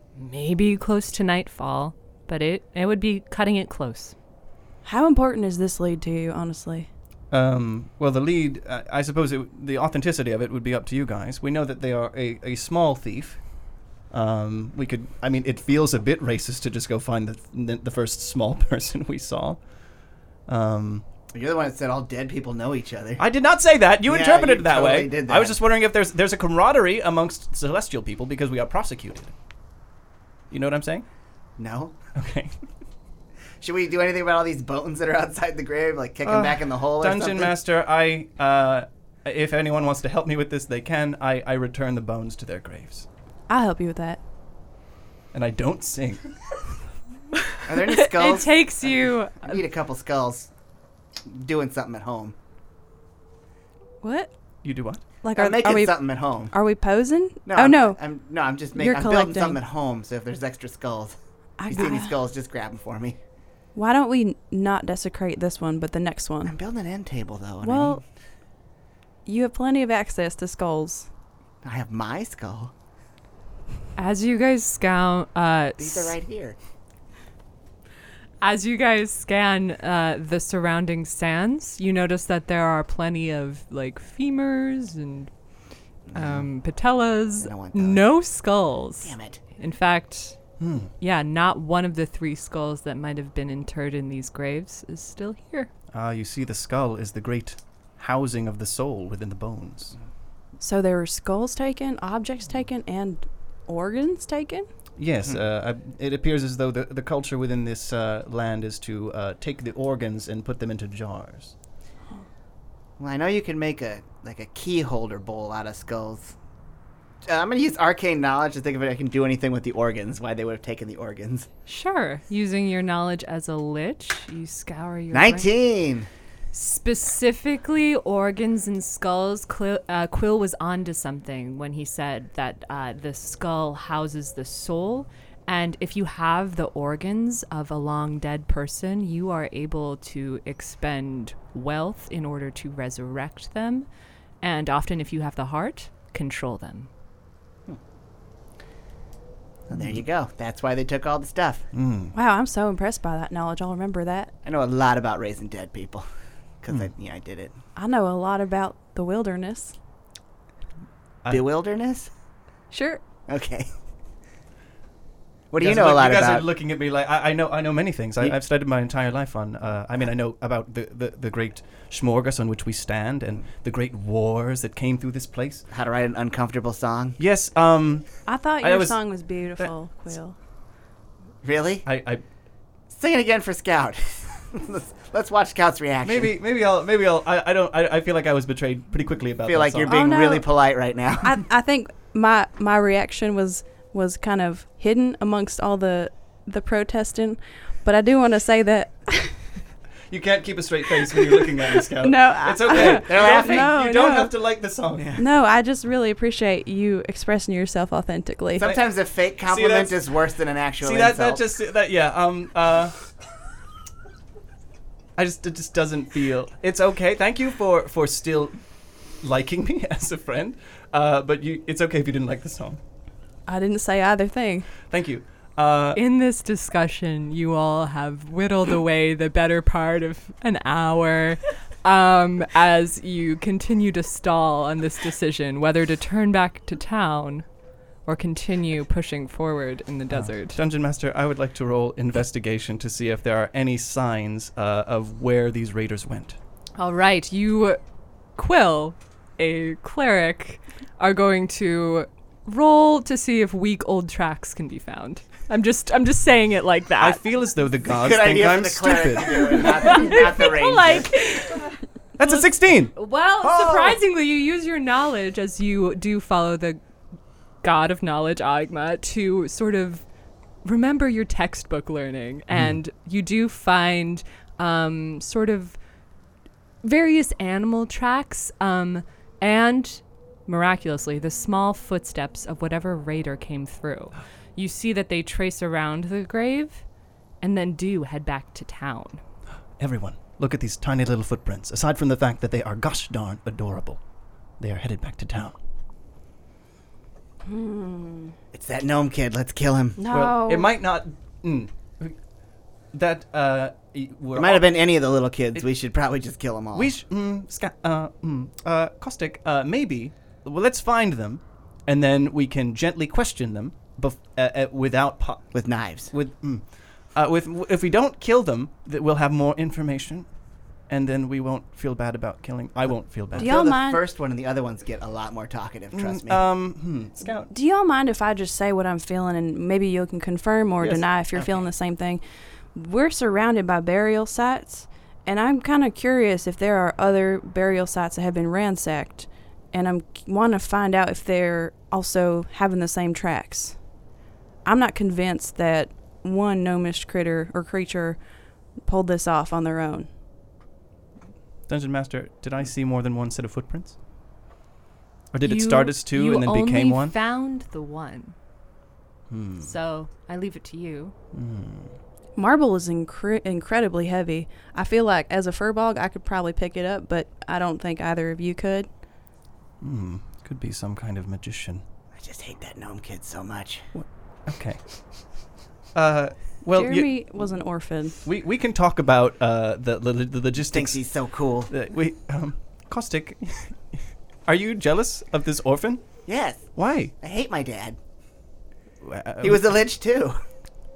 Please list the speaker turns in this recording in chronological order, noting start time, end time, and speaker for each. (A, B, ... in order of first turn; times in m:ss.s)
0:00.2-0:04.1 A
0:04.8-0:06.9 B
0:07.3-0:13.4 C
0:14.1-0:19.6 C
0:20.5-0:21.0 C
0:21.3-0:23.2 D
0:23.2-0:29.3 C
0:24.0-0:25.6 D
0:30.5-0:31.0 C
0:31.6-0:32.0 D
0:32.1-0:32.5 C
0:33.6-0:37.5 D
0:36.2-0:43.0 C
0:43.5-0:44.2 B
0:45.3-0:46.3 C
0:47.7-0:50.5 D
0:47.8-0:49.6 A
0:51.2-0:52.3 D
0:54.0-0:54.3 B
0:54.6-0:55.0 C
0:55.2-0:58.0 B
0:55.4-0:56.5 D
0:57.4-1:03.2 D
0:58.7-0:59.6 B
1:01.6-1:02.2 B
1:03.7-1:06.5 B
1:06.4-1:08.0 D
1:07.6-1:08.0 B
1:09.2-1:11.1 B
1:11.6-1:12.7 D
1:14.0-1:16.1 A
1:15.8-1:16.6 D
1:18.4-1:25.3 A
1:26.1-1:26.5 D
1:26.1-1:30.4 A
1:27.4-1:28.0 D
1:29.0-1:29.4 D
1:30.6-1:30.9 C
1:31.0-1:35.7 A
1:35.9-1:39.9 C
1:40.6-1:44.7 B
1:45.0-1:51.5 C
1:53.0-1:56.3 D
1:57.2-2:01.5 D
2:01.6-2:05.5 A
2:05.1-2:06.1 D
2:06.5-2:23.9 A
2:24.4-2:26.9 A
2:29.7-2:31.6 D
2:31.7-2:32.1 C
2:32.1-2:34.3 B
2:34.4-2:36.0 D
2:36.6-2:37.6 D
2:37.8-2:39.8 B
2:41.3-2:42.1 D
2:42.7-2:43.0 B
2:43.3-2:43.7 D
2:45.5-2:46.4 D
2:45.6-2:55.6 C
2:55.7-2:57.2 D
2:57.2-2:58.1 C
2:58.3-3:00.3 B
2:58.6-2:59.0 C
3:01.4-3:01.8 D
3:01.8-3:02.2 C
3:02.9-3:06.3 D
3:06.0-3:10.0 C
3:09.4-3:11.3 D
3:09.8-3:10.4 B
3:11.2-3:19.3 B
3:20.1-3:25.1 C
3:21.0-3:21.4 B
3:22.0-3:24.3 B
3:22.7-3:23.8 D
3:25.0-3:25.2 D
3:25.2-3:28.6 B
3:28.6-3:31.4 D
3:29.5-3:30.0 C
3:30.8-3:32.9 C
3:35.2-3:38.6 C
3:39.2-3:42.8 C
3:43.5-3:44.7 B
3:44.8-3:46.0 C
3:45.9-3:57.4 A
3:58.0-4:00.6 A
4:00.1-4:06.4 C
4:06.8-4:07.8 A
4:08.4-4:17.2 A
4:17.0-4:20.1 C
4:17.9-4:21.1 D
4:19.8-4:26.8 A
4:22.2-4:22.9 C
4:23.4-4:24.0 D
4:27.6-4:30.0 A
4:30.6-4:35.8 A
4:32.5-4:32.8 C
4:36.8-4:46.8 A
4:47.4-4:49.2 A
4:49.8-4:54.0 C
4:54.6-4:55.6 C
4:57.4-4:58.3 B
4:58.5-5:00.0 D
5:00.0-5:00.7 B
5:00.0-5:02.2 C
5:02.9-5:04.7 C
5:04.3-5:06.9 D
5:06.7-5:15.5 C
5:15.5-5:16.1 D
5:16.1-5:20.3 C
5:20.9-5:23.5 C
5:23.3-5:26.4 D
5:23.4-5:24.0 B
5:25.9-5:27.5 C
5:27.5-5:32.2 B
5:31.3-5:31.7 D
5:32.7-5:43.8 B
5:44.6-5:48.2 B
5:48.8-5:50.1 B
5:51.7-5:54.0 C
5:55.3-5:57.2 C
5:55.4-5:58.4 A
5:59.3-5:59.7 C
5:59.6-6:01.1 A
6:01.3-6:01.9 C
6:02.4-6:08.9 B
6:09.8-6:11.8 C
6:12.2-6:13.9 D
6:13.9-6:14.8 C
6:15.9-6:17.1 C
6:16.7-6:18.2 B
6:18.2-6:21.0 C
6:20.7-6:21.7 D
6:21.7-6:26.0 C
6:26.2-6:28.0 D
6:26.7-6:27.1 C
6:29.0-6:29.7 C
6:29.4-6:30.4 D